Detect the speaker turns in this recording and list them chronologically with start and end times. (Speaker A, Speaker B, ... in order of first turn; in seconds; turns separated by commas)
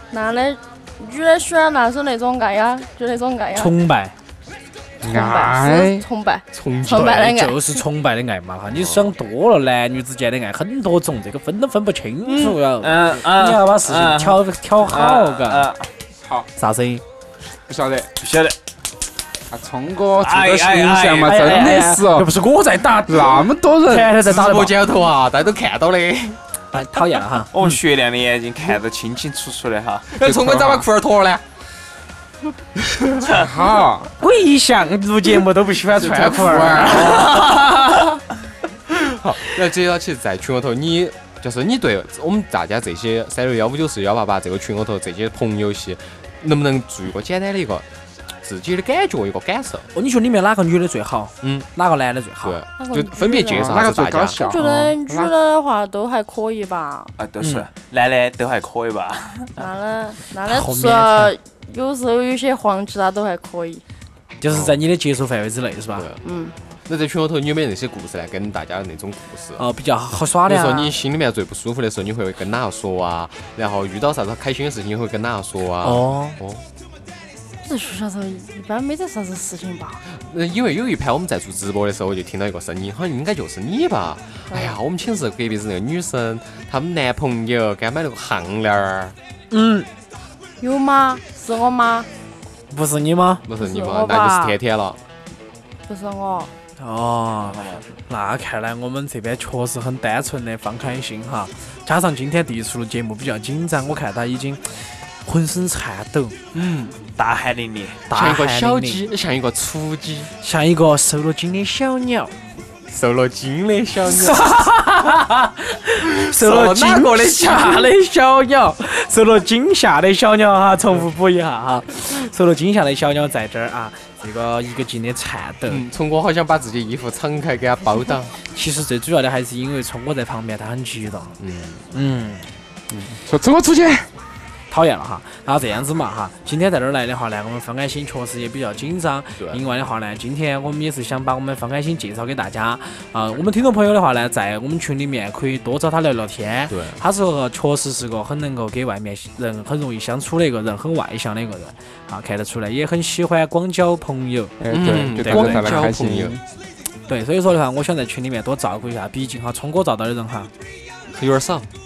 Speaker A: 0.1-3.7, Speaker B: 3.5-4.1, Speaker C: 5.0-6.0, Speaker A: 5.0-7.8, Speaker D: 6.5-7.4, Speaker B: 7.3-15.7, Speaker D: 8.7-9.1, Speaker E: 12.4-15.9, Speaker B: 16.6-17.0, Speaker C: 17.7-18.1, Speaker E: 18.2-18.6, Speaker C: 19.5-22.3, Speaker E: 20.2-21.8, Speaker B: 21.2-24.8, Speaker C: 23.1-24.1, Speaker D: 24.0-26.4, Speaker B: 26.7-27.8, Speaker E: 27.5-30.1, Speaker D: 30.2-31.4, Speaker C: 30.2-30.8, Speaker C: 33.3-34.1, Speaker B: 34.2-37.6, Speaker D: 36.0-37.4, Speaker C: 36.5-37.4, Speaker D: 38.9-47.9, Speaker D: 48.4-49.9, Speaker B: 50.0-52.6, Speaker D: 51.4-51.7, Speaker D: 52.4-54.4, Speaker A: 52.8-53.8, Speaker C: 53.5-55.3, Speaker A: 54.4-57.1, Speaker E: 57.2-59.5, Speaker B: 57.4-57.7, Speaker A: 59.6-63.8, Speaker B: 60.5-61.3, Speaker B: 64.4-66.1, Speaker D: 64.5-64.8, Speaker A: 66.2-66.6, Speaker D: 66.9-69.6, Speaker B: 69.6-70.9, Speaker D: 70.5-76.7, Speaker B: 75.8-76.4, Speaker A: 77.6-80.0, Speaker D: 80.1-89.2, Speaker A: 84.5-84.8, Speaker B: 89.5-89.9, Speaker A: 90.6-92.1, Speaker B: 92.7-93.4, Speaker D: 93.5-95.0, Speaker A: 93.6-94.6, Speaker A: 95.9-96.5, Speaker B: 96.8-106.4, Speaker E: 97.5-98.0, Speaker D: 106.5-107.0, Speaker E: 107.2-108.0, Speaker B: 108.1-109.0, Speaker D: 108.1-110.3, Speaker B: 110.4-112.3, Speaker D: 112.9-114.4, Speaker B: 114.1-125.8, Speaker D: 116.2-117.9, Speaker D: 125.7-128.3, Speaker B: 128.5-131.3, Speaker D: 131.4-131.9, Speaker B: 131.9-132.5, Speaker C: 133.1-134.1, Speaker B: 134.7-154.6, Speaker D: 146.7-147.0, Speaker C: 154.6-156.4, Speaker D: 154.7-156.4, Speaker B: 155.2-155.8, Speaker B: 157.1-160.5, Speaker D: 161.1-161.7